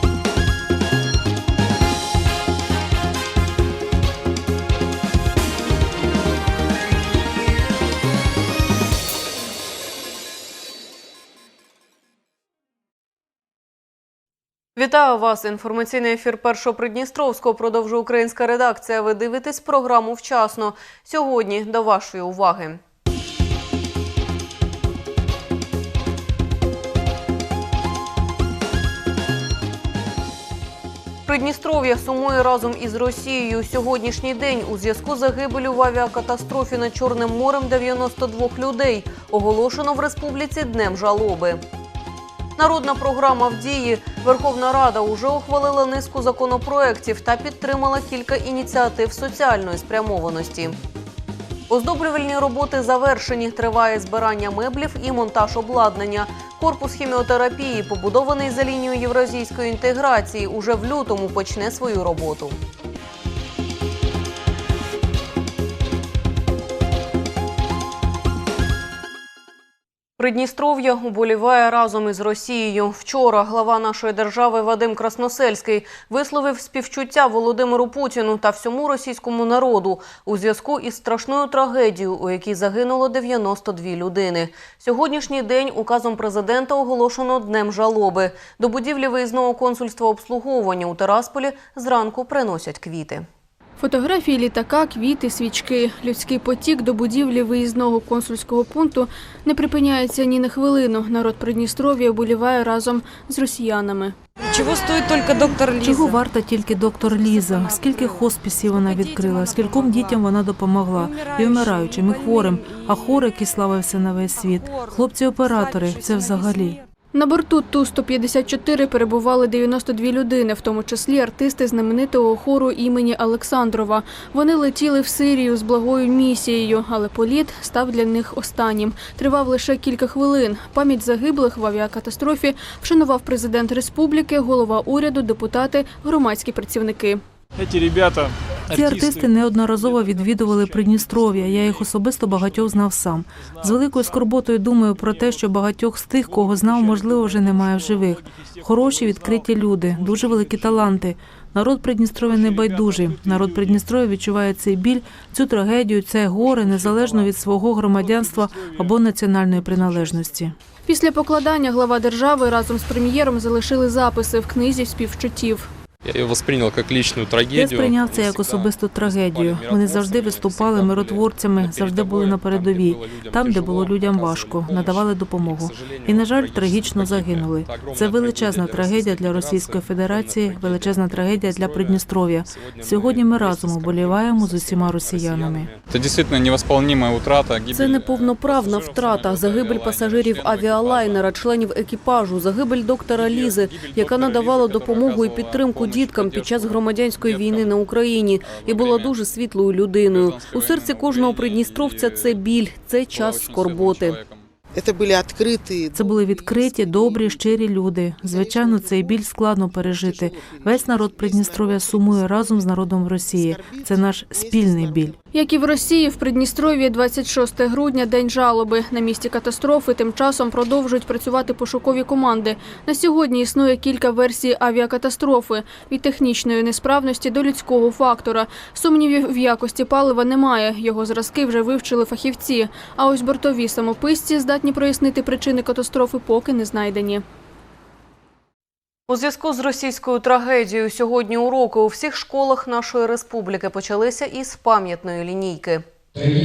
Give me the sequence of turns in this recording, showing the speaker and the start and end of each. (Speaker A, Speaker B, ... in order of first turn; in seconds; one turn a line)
Speaker A: 14.8-22.8
Speaker A: 31.3-41.6
Speaker A: 42.6-50.8
Speaker A: 51.7-62.6
Speaker A: 70.2-93.2
Speaker B: 93.8-104.2
Speaker C: 104.4-106.2
Speaker D: 105.8-116.8
Speaker C: 107.0-110.2
Speaker C: 110.9-113.3
Speaker C: 114.3-116.8
Speaker B: 117.1-137.2
Speaker E: 137.6-139.2
Speaker D: 138.7-160.5
Speaker E: 147.0-148.1
Speaker E: 148.6-149.4
Speaker E: 152.5-153.5
Speaker E: 156.6-157.1
Speaker E: 158.0-158.9
Speaker B: 160.8-165.7
Speaker F: 166.0-175.0
Speaker D: 167.5-185.7
Speaker F: 175.5-178.7
Speaker F: 185.9-191.3
Speaker A: 187.7-204.2
Speaker F: 193.2-197.7
Speaker F: 198.4-199.2
Speaker F: 200.1-202.4
Speaker F: 203.1-204.4
Speaker D: 205.9-215.1
Speaker B: 215.3-237.2
Speaker A: 239.1-245.8